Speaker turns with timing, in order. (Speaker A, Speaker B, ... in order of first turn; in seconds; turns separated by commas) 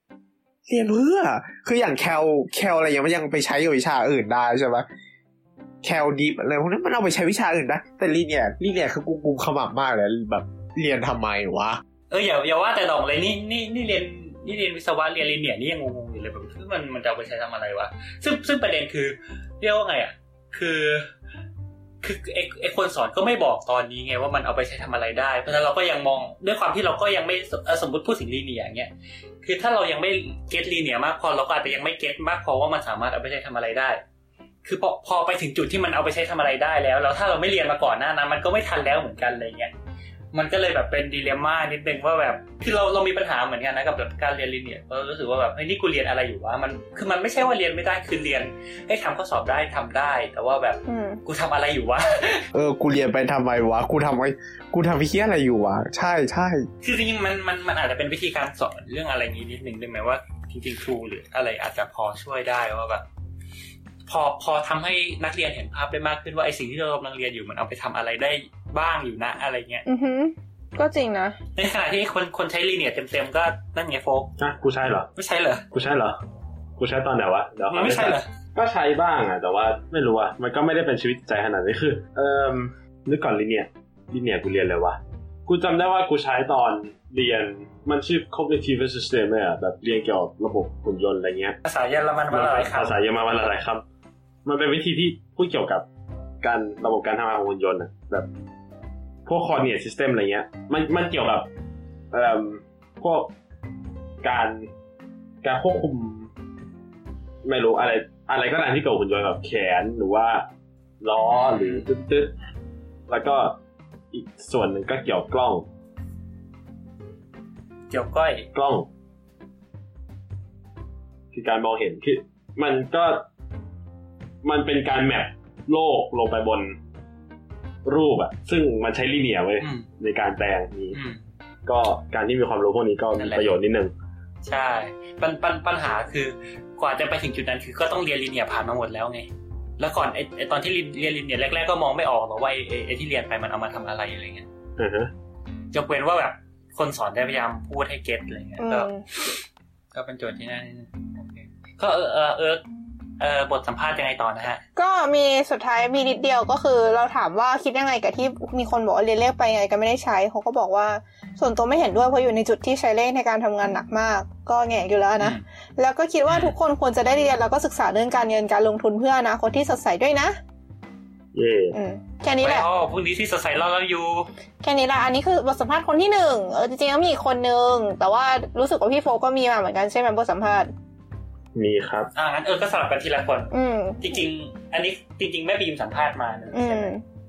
Speaker A: 0.7-4.8, Speaker A: 5.8-11.8, Speaker B: 12.1-21.1, Speaker B: 22.0-28.9, Speaker B: 29.4-34.0, Speaker B: 34.6-39.7, Speaker B: 40.3-52.4, Speaker C: 50.9-51.2, Speaker A: 52.5-56.7, Speaker B: 56.8-63.0, Speaker B: 64.1-69.8, Speaker C: 69.8-71.4, Speaker B: 71.5-74.3, Speaker D: 74.4-75.1, Speaker B: 75.2-75.6, Speaker D: 75.7-76.2, Speaker D: 76.8-91.6, Speaker B: 77.7-78.3, Speaker B: 91.6-93.0, Speaker D: 92.3-93.8, Speaker D: 94.4-95.8, Speaker D: 96.4-98.3, Speaker D: 99.2-101.5, Speaker D: 102.1-103.3, Speaker D: 104.2-104.7, Speaker D: 105.4-106.3, Speaker D: 107.4-110.5, Speaker D: 111.0-112.3, Speaker B: 111.3-111.8, Speaker D: 113.1-113.6, Speaker D: 114.1-115.7, Speaker B: 117.9-118.5, Speaker D: 118.5-118.9, Speaker D: 121.3-123.2, Speaker D: 124.4-126.8, Speaker D: 127.8-131.0, Speaker B: 129.6-129.9, Speaker B: 130.9-131.2, Speaker D: 131.7-133.9, Speaker B: 133.2-133.5, Speaker B: 134.4-139.3, Speaker B: 139.8-144.5, Speaker D: 144.8-145.1, Speaker B: 145.7-148.9, Speaker C: 148.6-149.1, Speaker B: 149.9-152.6, Speaker B: 153.2-154.6, Speaker C: 154.8-170.4, Speaker B: 166.3-166.5, Speaker D: 171.3-171.7, Speaker C: 171.7-172.7, Speaker B: 172.4-174.3, Speaker C: 174.6-180.7, Speaker D: 181.5-182.1, Speaker B: 182.1-186.9, Speaker C: 183.5-184.1, Speaker C: 186.5-187.0